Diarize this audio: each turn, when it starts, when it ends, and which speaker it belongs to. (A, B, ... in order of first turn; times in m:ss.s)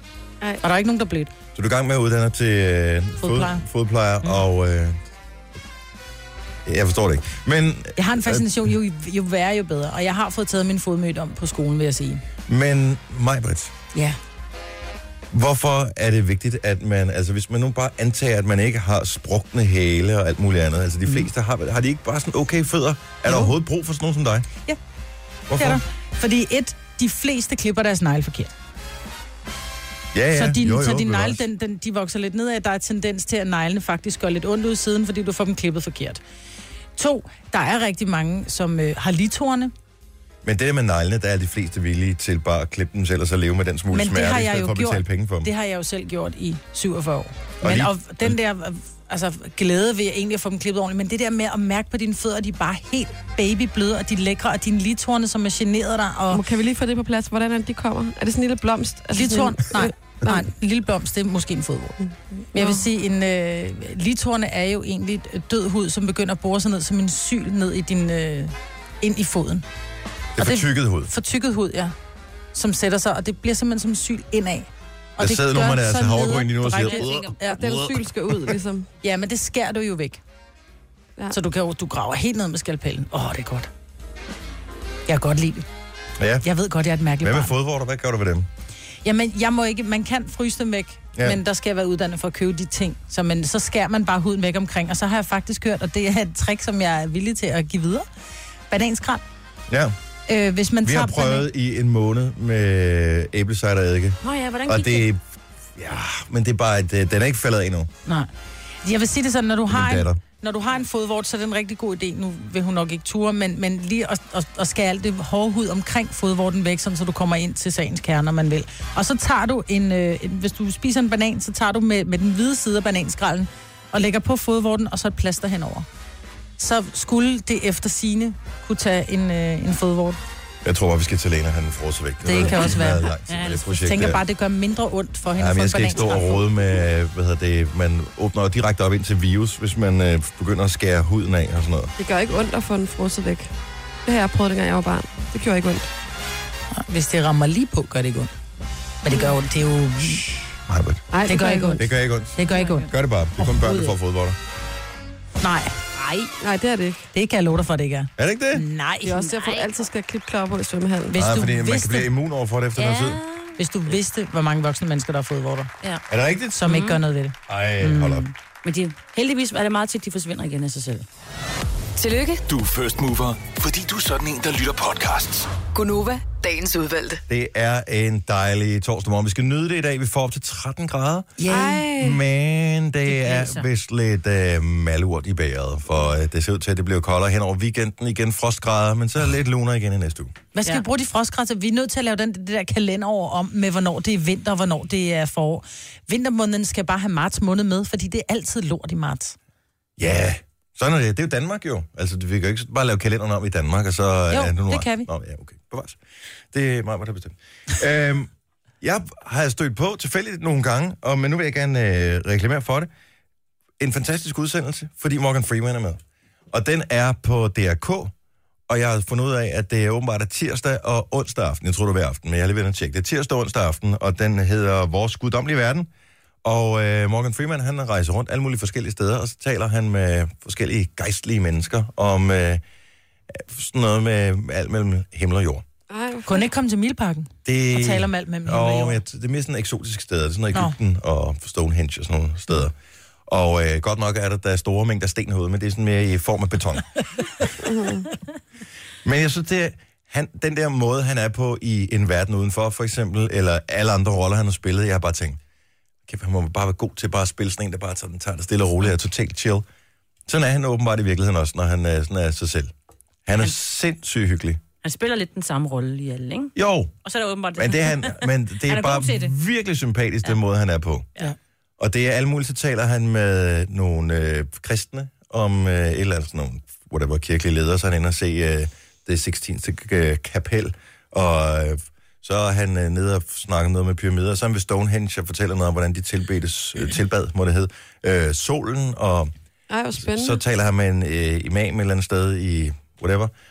0:00.6-0:01.3 A
0:01.5-0:05.0 B
0:03.2-0:03.6 A
0:06.6-0:08.6 B
0:08.0-0:12.2 A
0:12.5-0:13.7 B
0:15.3-0:24.5 B
0:23.3-0:23.5 A
0:25.5-0:25.8 B
0:25.6-0:28.5 A
0:30.1-0:31.4 B
0:30.3-0:36.2 A
0:37.0-0:39.7 A
0:40.4-0:45.5 B
0:43.9-0:56.4 A
0:47.6-0:48.4 B
0:56.3-1:00.4 C
0:59.1-1:02.0 A
1:02.0-1:02.8 C
1:02.6-1:09.6 A
1:10.4-1:11.1 B
1:10.4-1:11.9 A
1:12.5-1:17.6 A
1:15.2-1:18.6 B
1:16.8-1:17.4 D
1:17.5-1:18.9 C
1:19.0-1:20.2 A
1:21.3-1:23.7 A
1:25.1-1:25.7 A
1:26.2-1:26.5 B
1:26.4-1:27.5 A
1:27.2-1:28.5 B
1:29.0-1:38.1 A
1:31.2-1:31.4 B
1:38.7-1:39.2 A
1:39.7-1:40.0 B
1:40.3-1:41.5 A
1:40.8-1:45.2 B
1:44.2-1:45.1 D
1:45.8-1:47.9 B
1:48.8-2:05.9 A
1:49.7-1:50.2 B
2:06.6-2:10.2 A
2:10.6-2:14.2 B
2:12.2-2:13.1 A
2:13.3-2:14.1 D
2:13.8-2:16.4 A
2:15.4-2:21.9 B
2:22.0-2:23.5 C
2:24.0-2:25.9 C
2:26.7-2:28.3 A
2:29.0-2:30.3 A
2:29.1-2:29.4 C
2:30.7-2:31.1 B
2:31.1-2:31.9 C
2:31.3-2:34.0 A
2:31.8-2:34.4 B
2:32.5-2:32.9 D
2:35.4-2:36.2 A
2:36.4-2:37.1 C
2:37.1-2:39.3 A
2:38.2-2:38.6 B
2:39.0-2:41.2 C
2:39.4-2:39.7 D
2:41.1-2:42.1 A
2:41.2-2:43.2 B
2:42.8-2:43.6 D
2:43.6-2:45.7 A
2:46.1-2:46.8 B
2:46.6-2:47.4 A
2:46.7-2:47.0 D
2:47.5-2:48.3 B
2:47.8-2:51.1 D
2:52.0-2:52.4 E
2:52.5-2:55.5 F
2:55.7-2:57.2 E
2:57.3-3:01.4 B
3:01.4-3:01.8 A
3:01.5-3:02.2 C
3:01.9-3:10.4 B
3:03.1-3:03.6 D
3:10.6-3:19.4 A
3:20.0-3:26.0 B
3:24.3-3:25.1 A
3:26.5-3:28.3 B
3:28.8-3:32.9 B
3:33.8-3:36.0 B
3:36.5-3:38.1 B
3:38.7-3:45.9 B
3:46.4-3:52.6 B
3:53.3-3:55.6 B
3:55.9-3:56.5 C
3:56.3-3:59.0 A
3:57.4-4:02.8 B
4:03.3-4:06.9 B
4:07.6-4:08.1 C
4:09.0-4:15.4 B
4:16.1-4:19.6 B
4:20.3-4:22.7 B
4:23.3-4:24.6 B
4:24.8-4:26.5 D
4:26.6-4:26.9 B
4:27.0-4:29.3 D
4:27.6-4:31.1 B
4:31.8-4:49.3 B
4:49.7-4:50.4 C
4:50.0-4:53.3 B